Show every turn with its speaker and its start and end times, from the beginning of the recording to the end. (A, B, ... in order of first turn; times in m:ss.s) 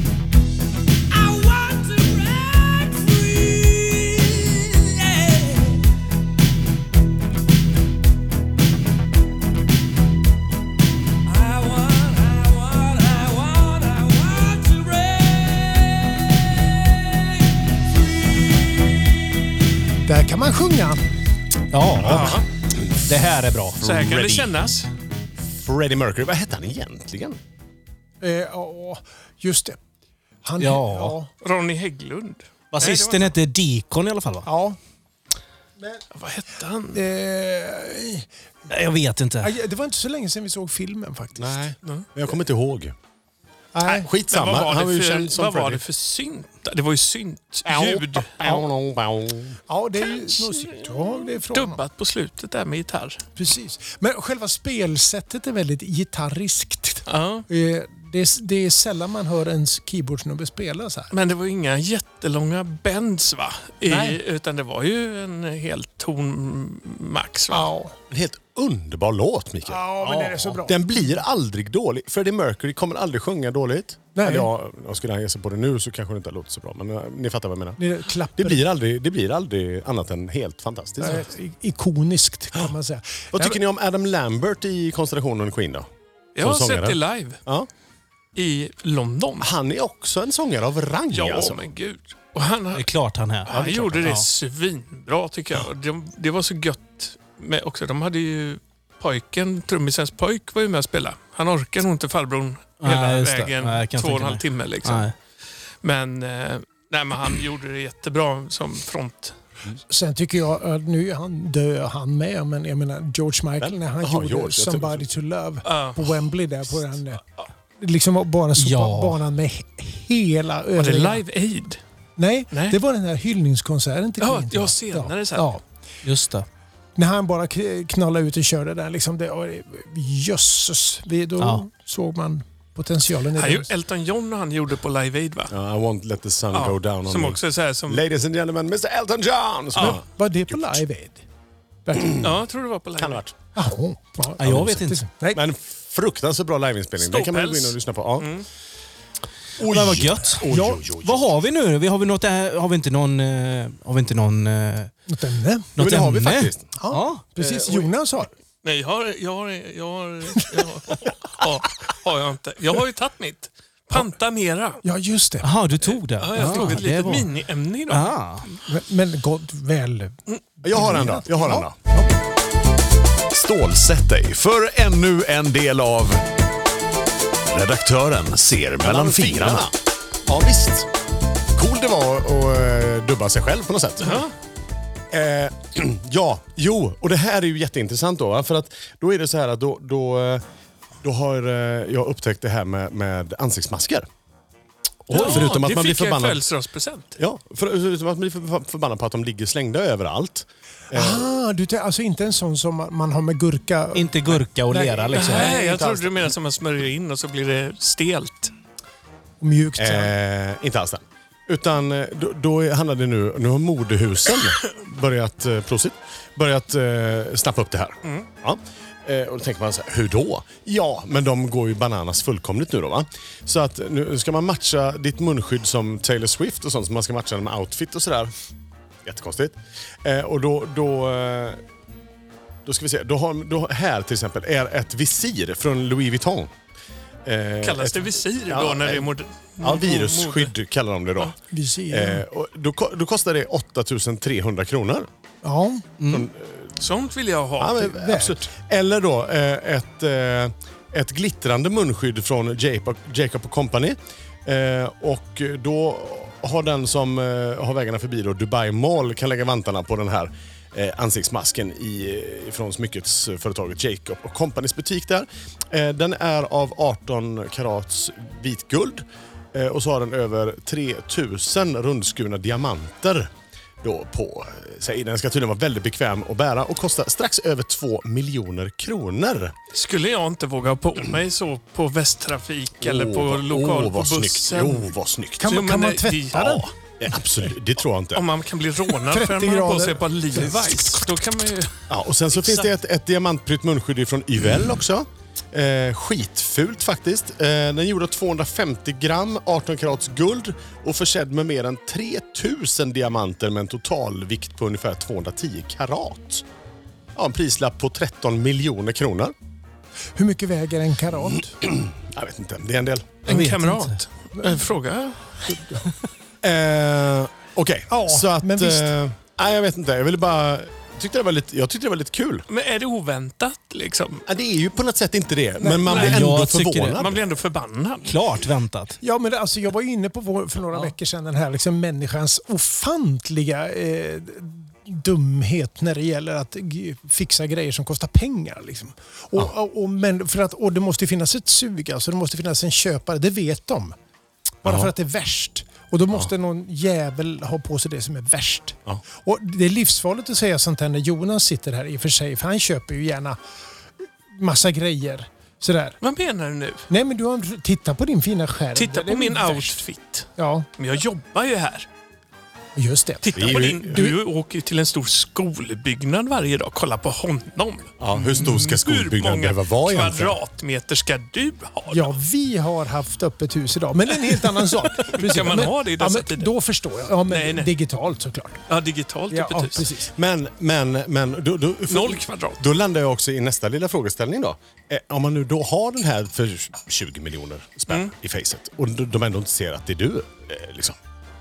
0:01.1-0:05.9 A
0:11.2-0:17.4 A
0:20.0-0:21.0 B
0:21.7-0:22.4 C
0:22.0-0:23.2 D
0:22.0-0:22.4 E
0:23.0-0:23.8 C
0:23.8-0:24.5 D
0:23.8-0:24.9 E
0:25.4-0:27.4 D
0:28.2-0:29.8 B
0:30.4-0:31.3 B
0:30.6-0:31.2 C
0:31.4-0:33.4 E
0:32.7-0:34.5 C
0:34.4-0:34.8 B
0:36.1-0:37.0 E
0:36.9-0:38.3 B
0:38.7-0:39.5 C
0:39.4-0:41.6 B
0:41.4-0:43.0 D
0:43.7-0:44.1 B
0:43.9-0:45.8 D
0:44.0-0:48.4 E
0:47.6-0:49.6 D
0:49.7-0:51.8 B
0:50.2-0:50.8 E
0:51.5-0:53.2 E
0:53.4-1:01.1 B
0:57.1-0:57.5 E
1:01.1-1:07.7 E
1:03.9-1:04.2 B
1:07.5-1:08.0 B
1:08.1-1:17.8 D
1:09.7-1:11.1 B
1:10.0-1:10.6 C
1:14.2-1:14.5 B
1:17.8-1:18.6 B
1:18.4-1:21.3 D
1:21.0-1:23.6 B
1:23.3-1:25.9 D
1:26.4-1:27.4 E
1:26.4-1:27.7 D
1:28.4-1:29.5 E
1:29.4-1:31.6 D
1:31.1-1:32.9 E
1:32.8-1:34.2 C
1:33.5-1:45.2 E
1:33.6-1:34.1 D
1:42.8-1:45.1 C
1:45.8-1:49.4 E
1:49.9-1:57.2 B
1:53.6-1:55.1 D
1:55.6-1:56.3 E
1:57.8-2:01.2 B
1:58.6-1:59.2 C
2:00.8-2:01.8 E
2:02.2-2:05.6 B
2:02.5-2:02.8 E
2:04.2-2:05.5 E
2:06.0-2:06.5 C
2:07.0-2:13.7 B
2:11.4-2:11.6 C
2:13.4-2:15.6 E
2:15.5-2:20.8 D
2:16.5-2:18.0 E
2:19.8-2:21.2 B
2:21.8-2:22.3 B
2:21.9-2:22.3 D
2:22.2-2:23.2 E
2:23.0-2:23.4 D
2:23.6-2:25.4 B
2:24.4-2:25.0 C
2:24.4-2:24.8 D
2:25.3-2:28.3 D
2:27.0-2:28.5 E
2:29.6-2:31.3 D
2:29.6-2:34.9 C
2:30.5-2:30.8 B
2:35.1-2:35.7 B
2:35.8-2:37.2 C
2:35.8-2:36.7 D
2:36.8-2:38.3 B
2:37.4-2:37.9 D
2:38.6-2:44.8 E
2:40.4-2:40.7 B
2:44.8-2:45.5 B
2:45.4-2:47.3 C
2:45.9-2:48.2 E
2:47.9-2:48.6 C
2:48.7-2:52.1 B
2:50.6-2:51.8 D
2:53.3-2:56.2 F
2:57.5-2:59.6 F
2:58.3-2:59.8 D
3:00.3-3:00.9 D
3:01.5-3:04.3 D
3:04.0-3:04.3 E
3:05.1-3:10.4 D
3:11.0-3:14.1 D
3:15.0-3:16.4 D
3:15.1-3:17.2 E
3:17.2-3:21.4 D
3:20.9-3:25.5 B
3:23.9-3:25.5 C
3:25.2-3:28.5 E
3:25.3-3:26.3 D
3:29.4-3:30.1 B
3:29.8-3:48.3 D
3:49.0-3:51.6 D
3:52.6-3:56.5 D
3:57.2-4:01.4 D
3:57.6-4:00.5 E
4:01.5-4:02.2 B
4:01.9-4:05.1 D
4:05.4-4:05.9 B
4:06.0-4:06.3 C
4:06.1-4:06.7 D
4:06.8-4:07.9 E
4:07.6-4:33.3 D
4:07.9-4:08.5 B
4:33.8-4:39.6 D
4:39.7-4:44.8 E
4:42.8-4:45.7 D
4:45.4-4:46.6 B
4:45.4-4:46.7 E
4:47.0-4:48.3 D
4:48.1-4:51.7 E
4:49.1-4:50.9 B
4:51.9-5:06.4 D
4:52.4-4:52.7 E
5:07.2-5:09.3 D
5:10.2-5:11.5 B
5:11.6-5:13.2 D
5:13.2-5:15.5 E
5:13.3-5:14.0 C
5:14.4-5:14.6 B
5:15.5-5:15.8 B
5:16.4-5:22.5 D
5:17.9-5:18.9 B
5:22.5-5:24.2 E
5:24.3-5:27.2 D
5:25.6-5:26.0 B
5:25.8-5:26.2 E
5:25.9-5:27.0 C
5:26.9-5:28.2 E
5:28.0-5:29.0 C
5:29.0-5:44.0 B
5:44.6-5:53.4 B
5:44.6-5:44.9 D
5:54.3-5:56.0 B
5:56.0-5:56.9 E
5:56.9-5:59.8 B
5:58.8-6:01.9 E
6:00.4-6:00.7 B
6:02.8-6:04.1 B
6:03.2-6:12.2 E
6:03.4-6:04.2 D
6:08.0-6:10.4 D
6:11.9-6:18.6 B
6:14.3-6:16.5 E
6:17.3-6:17.7 E
6:18.7-6:19.9 E
6:19.3-6:20.1 B
6:20.2-6:31.0 D
6:21.9-6:22.6 E